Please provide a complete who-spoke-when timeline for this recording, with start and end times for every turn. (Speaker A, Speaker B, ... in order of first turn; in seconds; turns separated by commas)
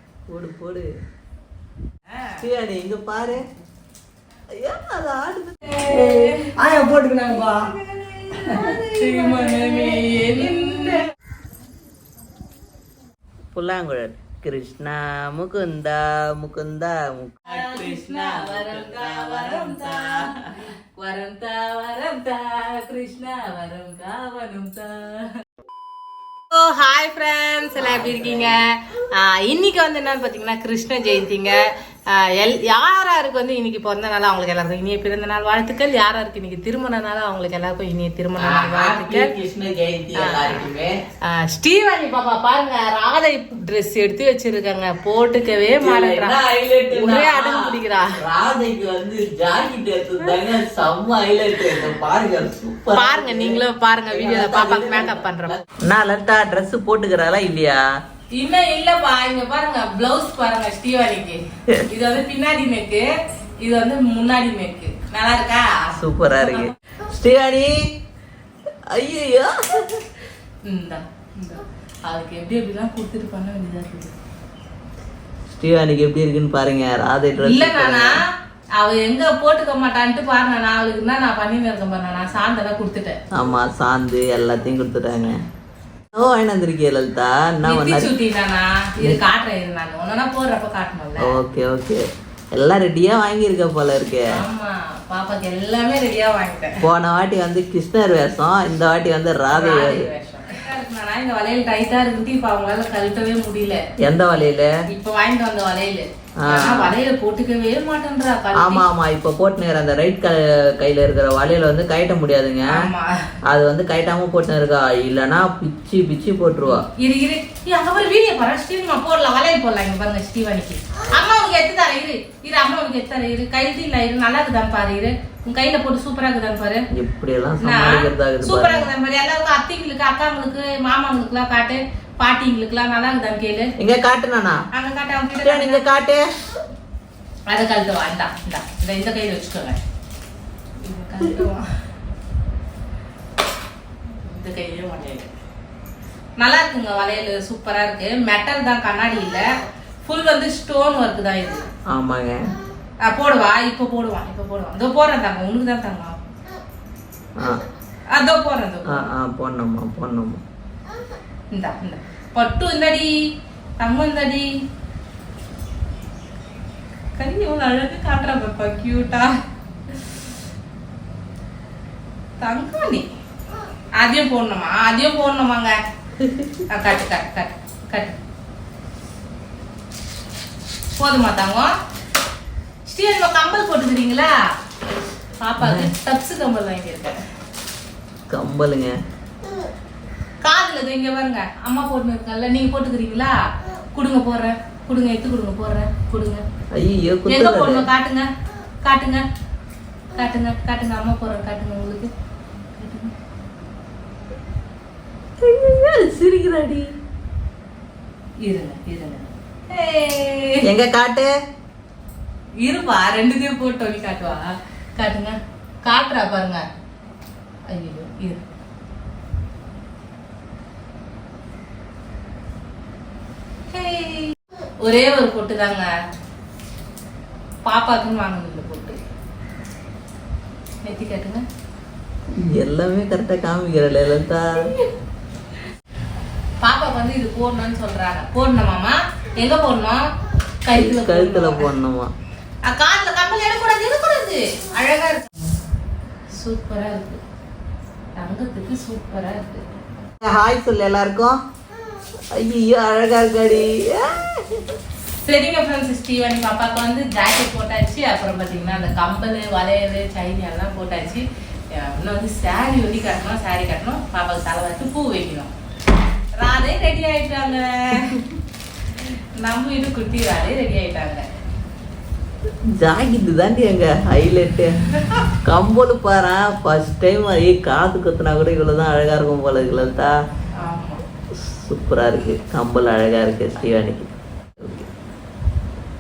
Speaker A: 0.3-0.9, Speaker B: 2.1-2.4, Speaker A: 2.4-3.4, Speaker A: 4.5-5.6, Speaker B: 5.7-6.5, Speaker C: 5.9-7.7, Speaker C: 8.3-8.8, Speaker B: 8.9-11.0, Speaker A: 13.6-20.1, Speaker B: 17.5-25.4, Speaker B: 26.5-39.3, Speaker A: 27.8-28.6, Speaker A: 38.4-41.0, Speaker B: 40.1-40.6, Speaker B: 41.2-46.4, Speaker A: 45.8-47.6, Speaker B: 46.9-48.2, Speaker A: 48.2-57.8, Speaker B: 52.9-55.6, Speaker B: 58.4-63.1, Speaker B: 63.6-66.7, Speaker A: 66.0-67.8, Speaker A: 68.9-70.0, Speaker B: 70.7-74.1, Speaker A: 75.5-78.2, Speaker B: 77.4-78.2, Speaker B: 78.8-83.2, Speaker A: 83.3-85.4, Speaker A: 86.2-88.1, Speaker B: 87.7-91.4, Speaker A: 91.2-94.3, Speaker B: 94.3-96.8, Speaker A: 96.8-100.0, Speaker B: 99.5-103.8, Speaker A: 104.0-104.7, Speaker B: 104.9-108.9, Speaker A: 106.4-106.9, Speaker A: 108.6-112.9, Speaker B: 112.7-113.3, Speaker A: 113.5-116.8, Speaker B: 116.7-126.9, Speaker A: 126.9-128.9, Speaker B: 127.6-133.7, Speaker A: 133.8-134.7, Speaker B: 134.7-135.8, Speaker A: 135.4-136.3, Speaker B: 137.5-139.8, Speaker B: 140.8-141.7, Speaker B: 144.2-145.3, Speaker B: 146.4-149.5, Speaker B: 150.0-151.7, Speaker A: 151.9-152.5, Speaker B: 153.0-156.2, Speaker B: 158.1-159.1, Speaker A: 158.9-160.4, Speaker B: 161.5-163.2, Speaker B: 163.8-164.5, Speaker B: 167.2-169.4, Speaker B: 172.4-173.1, Speaker B: 174.0-175.8, Speaker A: 176.2-176.6, Speaker B: 176.7-178.2, Speaker B: 180.9-181.7, Speaker B: 182.9-184.3, Speaker B: 185.4-187.2, Speaker A: 185.6-185.9, Speaker A: 188.3-188.9, Speaker B: 190.4-193.4, Speaker B: 193.9-196.4, Speaker A: 196.7-197.9, Speaker B: 197.3-198.3, Speaker B: 198.8-199.2, Speaker B: 200.2-202.1, Speaker B: 202.7-203.1, Speaker A: 205.4-206.9, Speaker B: 208.4-210.7, Speaker A: 210.6-211.3, Speaker B: 212.6-216.7, Speaker B: 217.7-218.4, Speaker B: 223.7-226.0, Speaker B: 227.7-229.0, Speaker B: 230.8-231.5, Speaker A: 232.4-234.6, Speaker B: 236.6-240.1, Speaker B: 240.7-241.7, Speaker A: 240.7-242.1, Speaker B: 242.7-245.3, Speaker B: 246.3-247.2, Speaker B: 248.2-249.6, Speaker A: 250.2-251.4, Speaker A: 252.3-254.3, Speaker B: 255.2-265.5, Speaker B: 266.4-268.2, Speaker B: 269.4-271.2, Speaker A: 272.8-274.7, Speaker A: 275.4-280.1, Speaker B: 280.6-281.0, Speaker A: 281.5-284.9